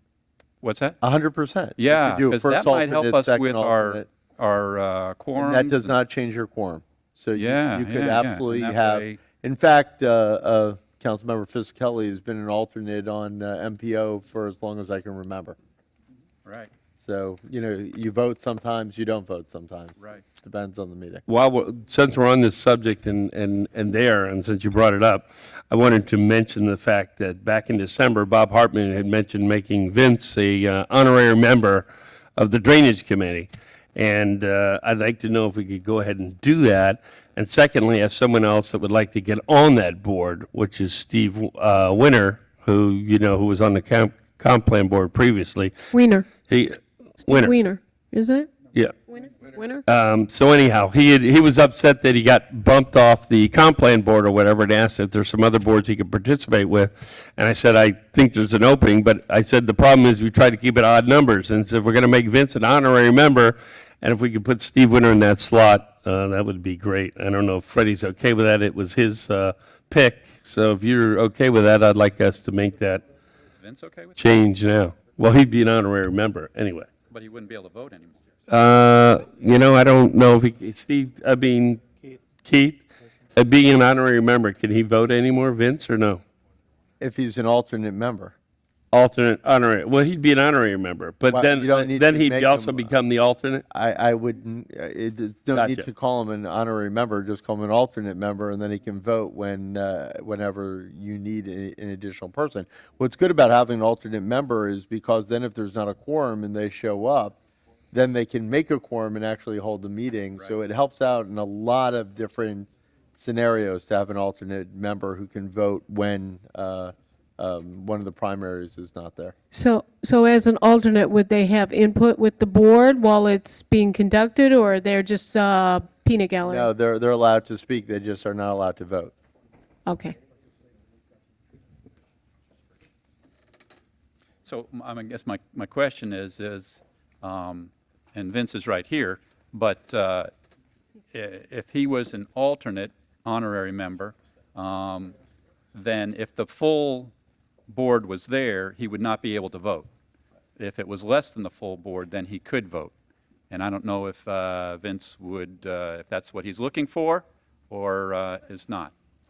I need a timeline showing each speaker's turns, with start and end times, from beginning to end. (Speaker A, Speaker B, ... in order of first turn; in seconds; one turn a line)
Speaker A: 0.6-1.0
Speaker B: 1.0-4.1
Speaker A: 1.8-5.9
Speaker B: 5.4-15.6
Speaker A: 7.4-9.2
Speaker A: 16.4-16.7
Speaker B: 17.0-21.2
Speaker C: 21.3-45.7
Speaker D: 45.9-46.3
Speaker C: 46.4-47.5
Speaker D: 47.2-48.5
Speaker D: 49.1-49.9
Speaker C: 49.9-73.0
Speaker A: 73.5-74.4
Speaker C: 74.2-76.9
Speaker A: 77.1-78.2
Speaker C: 78.5-86.2
Speaker B: 87.0-88.3
Speaker C: 88.9-93.6
Speaker B: 91.3-93.0
Speaker B: 93.7-107.4
Speaker C: 95.5-95.9
Speaker B: 107.9-119.3
Speaker D: 119.5-126.7
Speaker B: 126.5-129.1
Speaker D: 129.9-130.2
Speaker A: 134.4-140.3
Speaker A: 141.1-145.2
Speaker A: 145.7-147.1
Speaker A: 147.7-149.9
Speaker A: 150.6-152.9
Speaker A: 153.5-158.9